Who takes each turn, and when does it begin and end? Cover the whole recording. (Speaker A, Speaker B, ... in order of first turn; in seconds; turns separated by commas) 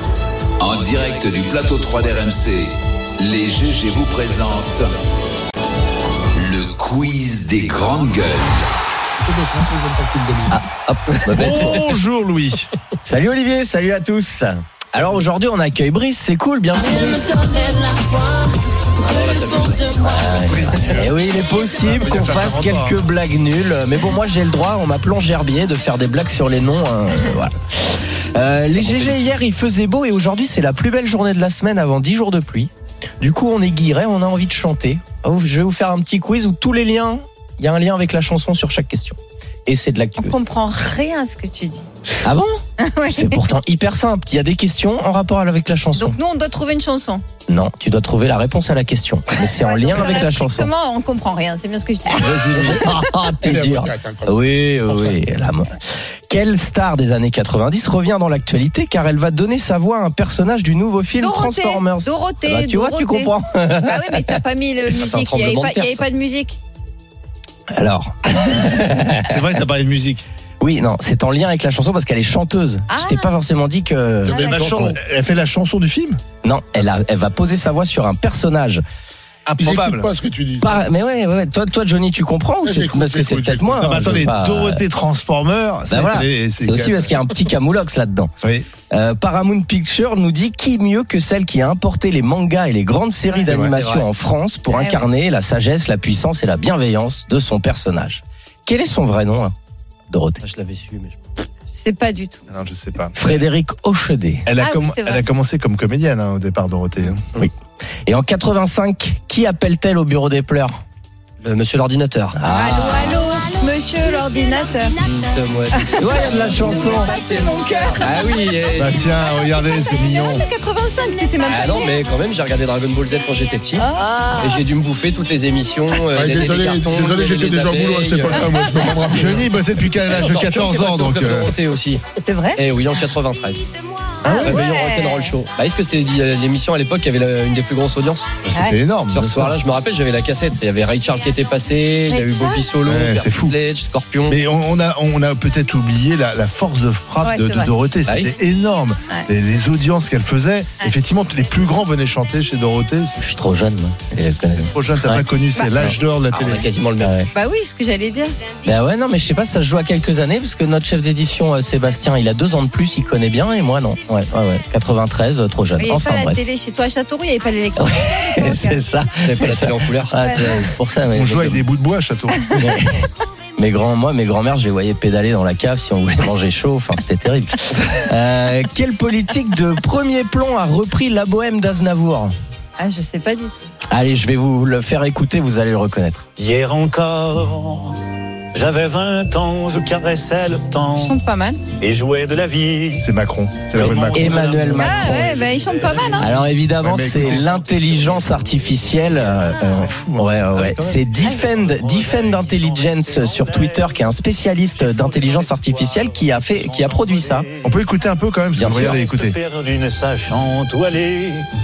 Speaker A: 0.6-5.0, Speaker A: 6.3-8.6, Speaker B: 9.2-10.6, Speaker C: 10.5-11.9, Speaker D: 11.3-12.7, Speaker C: 13.0-17.5, Speaker E: 17.7-18.1, Speaker F: 19.0-20.2, Speaker C: 20.0-40.4, Speaker D: 20.5-21.2, Speaker D: 21.8-23.0, Speaker F: 28.8-29.3, Speaker E: 40.2-41.9, Speaker C: 42.2-46.2, Speaker E: 42.8-43.4, Speaker E: 45.9-47.2, Speaker C: 47.5-50.7, Speaker E: 49.4-53.2, Speaker F: 52.3-52.6, Speaker B: 52.4-54.4, Speaker C: 52.5-55.8, Speaker C: 56.3-64.4, Speaker E: 61.2-66.6, Speaker F: 64.9-66.0, Speaker C: 67.7-69.3, Speaker D: 69.2-70.2, Speaker C: 70.6-74.4, Speaker E: 72.9-73.3, Speaker D: 74.3-76.2, Speaker E: 74.3-74.9, Speaker B: 74.3-75.0, Speaker C: 76.4-78.8, Speaker D: 79.5-80.1, Speaker B: 79.6-80.8, Speaker C: 80.6-84.8, Speaker B: 82.6-83.9, Speaker D: 83.8-87.1, Speaker C: 85.9-88.3, Speaker D: 88.4-88.7, Speaker C: 88.9-99.5, Speaker F: 93.5-94.1, Speaker D: 93.5-93.8, Speaker E: 94.7-95.0, Speaker C: 100.1-100.4, Speaker F: 100.4-101.2, Speaker E: 101.7-102.4, Speaker D: 102.5-103.4, Speaker C: 103.1-104.5, Speaker D: 104.5-107.2, Speaker E: 104.6-105.3, Speaker C: 108.0-110.8, Speaker F: 111.4-112.3, Speaker C: 112.3-113.2, Speaker E: 112.4-115.0, Speaker F: 115.0-119.0, Speaker E: 115.7-122.0, Speaker C: 116.0-117.2, Speaker D: 118.7-120.4, Speaker F: 121.4-129.2, Speaker E: 123.7-124.6, Speaker B: 126.1-129.5, Speaker D: 129.1-131.5, Speaker F: 130.1-132.0, Speaker E: 132.2-132.6, Speaker F: 132.6-133.7, Speaker D: 134.2-134.6, Speaker E: 134.2-135.3, Speaker F: 134.4-138.3, Speaker D: 138.4-139.5, Speaker E: 138.5-138.8, Speaker F: 139.1-144.4, Speaker E: 142.1-142.7, Speaker D: 142.8-143.6, Speaker D: 144.3-153.2, Speaker E: 147.2-147.7, Speaker F: 148.1-148.3, Speaker C: 153.2-155.2, Speaker D: 154.7-156.7, Speaker F: 156.3-157.2, Speaker C: 157.0-157.3, Speaker E: 157.3-158.3, Speaker C: 158.6-166.4, Speaker E: 165.8-168.8, Speaker C: 167.8-171.6, Speaker F: 169.2-170.6, Speaker E: 170.2-170.5, Speaker D: 171.1-172.7, Speaker C: 172.6-172.9, Speaker C: 173.6-182.3, Speaker E: 182.8-183.6, Speaker C: 183.9-186.2, Speaker G: 186.4-188.0, Speaker G: 188.5-191.2, Speaker E: 191.0-191.6, Speaker G: 191.8-193.1, Speaker D: 193.0-194.6, Speaker G: 193.7-196.5, Speaker C: 194.2-195.4, Speaker E: 194.8-196.3, Speaker C: 196.2-207.5, Speaker D: 196.8-197.5, Speaker G: 197.1-199.9, Speaker D: 199.7-200.3, Speaker F: 200.5-201.0, Speaker G: 201.1-204.2, Speaker G: 204.7-207.8, Speaker D: 207.6-209.3, Speaker C: 208.5-209.0, Speaker G: 208.6-211.5